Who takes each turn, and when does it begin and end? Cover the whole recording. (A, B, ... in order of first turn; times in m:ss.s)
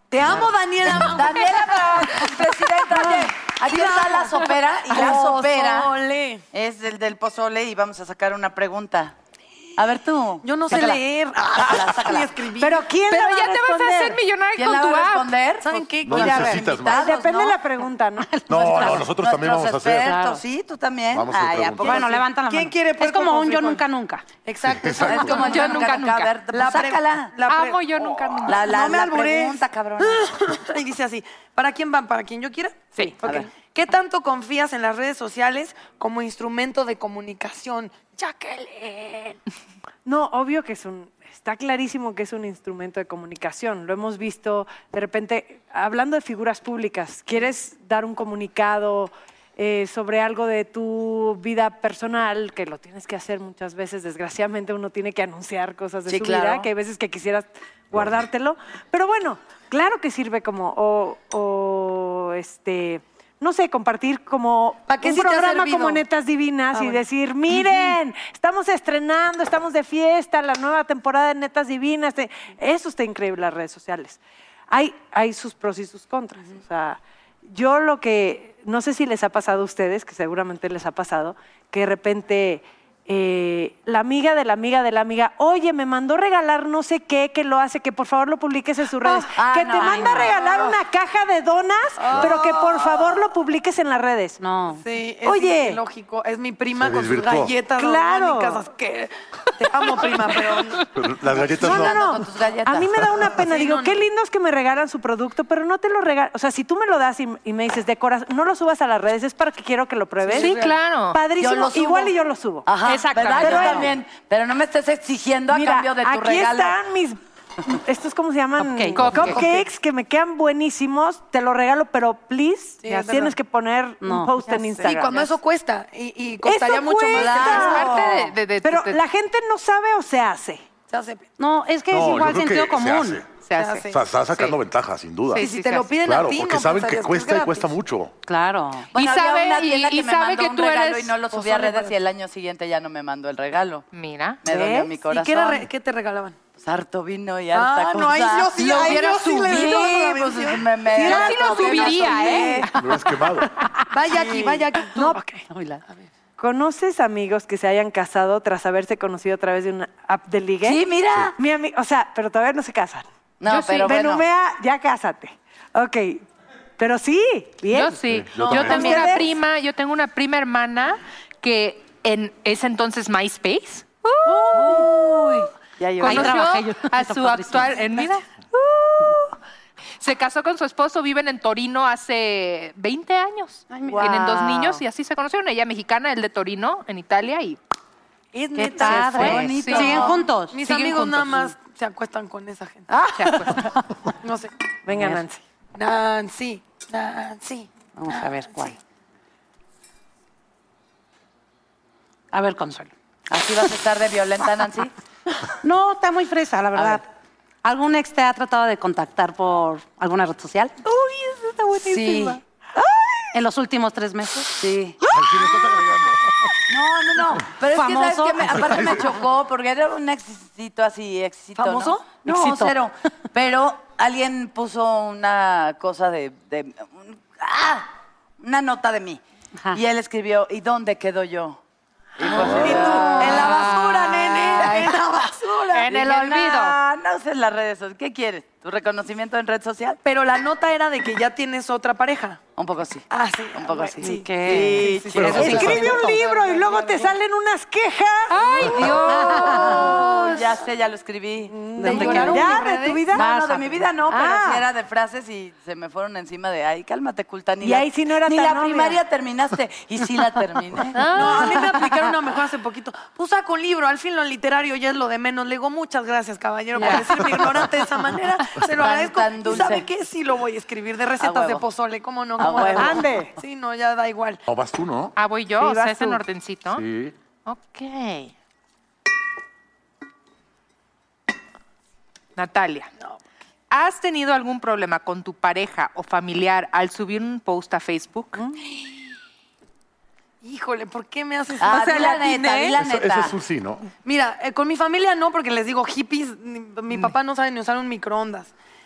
0:00.1-0:06.4 A
0:00.2-0:05.9 B
0:06.5-0:09.2 B
0:09.8-0:11.0 B
0:10.4-0:12.8 A
0:11.5-0:12.4 B
0:12.6-0:14.2 C
0:13.1-0:15.3 D
0:14.6-0:17.6 B
0:15.6-0:16.7 A
0:16.0-0:17.1 E
0:16.9-0:19.0 C
0:18.5-0:20.1 E
0:18.6-0:22.2 B
0:20.0-0:20.4 F
0:21.1-0:22.0 E
0:21.8-0:24.3 F
0:22.0-0:23.9 A
0:24.4-0:25.9 A
0:24.7-0:25.4 E
0:25.0-0:27.3 B
0:25.3-0:26.3 D
0:26.5-0:39.4 A
0:27.5-0:28.7 D
0:28.5-0:30.3 B
0:40.0-1:14.2 C
0:56.1-0:56.7 B
1:04.9-1:06.0 A
1:06.7-1:07.8 A
1:14.7-1:34.4 C
1:29.3-1:30.3 B
1:30.2-1:30.8 A
1:32.0-1:33.2 A
1:34.4-1:34.8 F
1:34.7-1:40.9 A
1:35.2-1:35.8 C
1:36.8-1:37.5 E
1:37.8-1:38.6 C
1:40.9-1:42.1 E
1:41.4-1:43.1 B
1:41.6-1:50.6 C
1:43.3-1:44.0 A
1:50.3-1:50.8 A
1:50.3-1:51.2 D
1:51.1-1:52.7 C
1:51.4-1:52.1 B
1:52.7-1:56.8 B
1:52.8-1:53.9 D
1:53.2-1:53.9 C
1:55.5-2:05.2 C
1:58.6-1:59.0 F
1:59.0-1:59.4 D
1:59.3-1:59.6 A
2:02.8-2:03.3 A
2:04.0-2:04.9 F
2:04.8-2:08.1 A
2:06.4-2:10.6 C
2:07.2-2:07.9 B
2:07.2-2:09.0 D
2:10.9-2:11.3 A
2:11.4-2:13.2 F
2:11.9-2:13.3 E
2:13.4-2:14.6 D
2:13.6-2:14.0 A
2:13.9-2:15.4 E
2:15.3-2:15.9 D
2:15.4-2:17.7 A
2:16.0-2:18.1 E
2:18.3-2:18.9 F
2:18.9-2:23.9 B
2:18.9-2:21.2 D
2:21.4-2:21.9 A
2:23.9-2:24.4 D
2:24.4-2:25.7 B
2:24.5-2:26.4 A
2:26.6-2:32.7 B
2:27.5-2:32.4 A
2:30.9-2:32.7 D
2:31.0-2:32.5 C
2:32.8-2:33.5 E
2:33.9-2:36.0 A
2:34.1-2:34.6 B
2:36.4-2:40.8 C
2:40.6-2:41.3 B
2:41.4-2:43.0 C
2:43.4-2:44.2 B
2:43.5-2:43.9 D
2:43.7-2:46.2 C
2:46.8-2:48.0 C
2:47.7-2:54.8 D
2:48.1-2:49.0 E
2:48.4-2:49.3 B
2:48.7-2:49.2 C
2:54.3-2:56.4 B
2:54.5-2:54.9 F
2:56.0-2:58.1 F
2:56.0-2:59.4 D
3:00.0-3:07.6 D
3:03.7-3:04.4 F
3:03.9-3:04.7 B
3:08.3-3:12.9 A
3:08.6-3:10.6 F
3:08.8-3:11.5 D
3:08.9-3:10.2 B
3:12.9-3:13.8 F
3:13.2-3:13.7 D
3:14.2-3:14.5 A
3:14.9-3:15.4 C
3:15.8-3:18.7 A
3:18.0-3:18.8 F
3:22.3-3:22.9 F
3:23.3-3:24.9 B
3:25.6-3:27.1 F
3:26.7-3:27.0 B
3:27.6-3:30.8 F
3:30.9-3:32.3 D
3:31.8-3:32.4 B
3:33.3-3:34.6 F
3:34.6-3:35.0 B
3:35.1-3:36.6 E
3:36.7-3:51.6 B
3:37.7-3:38.9 F
3:38.5-3:39.1 E
3:41.6-3:42.2 A
3:42.3-3:42.7 F
3:52.2-4:00.0 B
3:52.2-3:55.9 A
3:52.4-3:52.8 E
3:55.8-3:56.8 D
4:00.0-4:02.4 A
4:02.6-4:05.8 B
4:03.1-4:07.1 A
4:04.0-4:04.8 F
4:05.1-4:06.0 E
4:05.3-4:09.9 C
4:08.3-4:10.4 D
4:09.4-4:21.1 B
4:11.7-4:14.6 C
4:11.7-4:13.1 A
4:11.8-4:12.5 F
4:13.2-4:13.6 F
4:17.6-4:19.0 C
4:21.0-4:21.8 D
4:21.1-4:34.4 A
4:26.8-4:27.2 D
4:28.7-4:29.9 B
4:31.2-4:31.7 B
4:32.4-4:33.0 B
4:32.6-4:33.3 C
4:34.5-4:35.2 E
4:35.2-4:36.8 D
4:35.6-4:36.2 C
4:36.7-4:37.2 E
4:37.5-4:38.3 D
4:42.4-4:42.9 D
4:43.7-4:48.4 D
4:50.4-4:52.8 A
4:51.6-4:53.4 B
4:52.8-4:53.9 E
4:54.0-4:58.5 A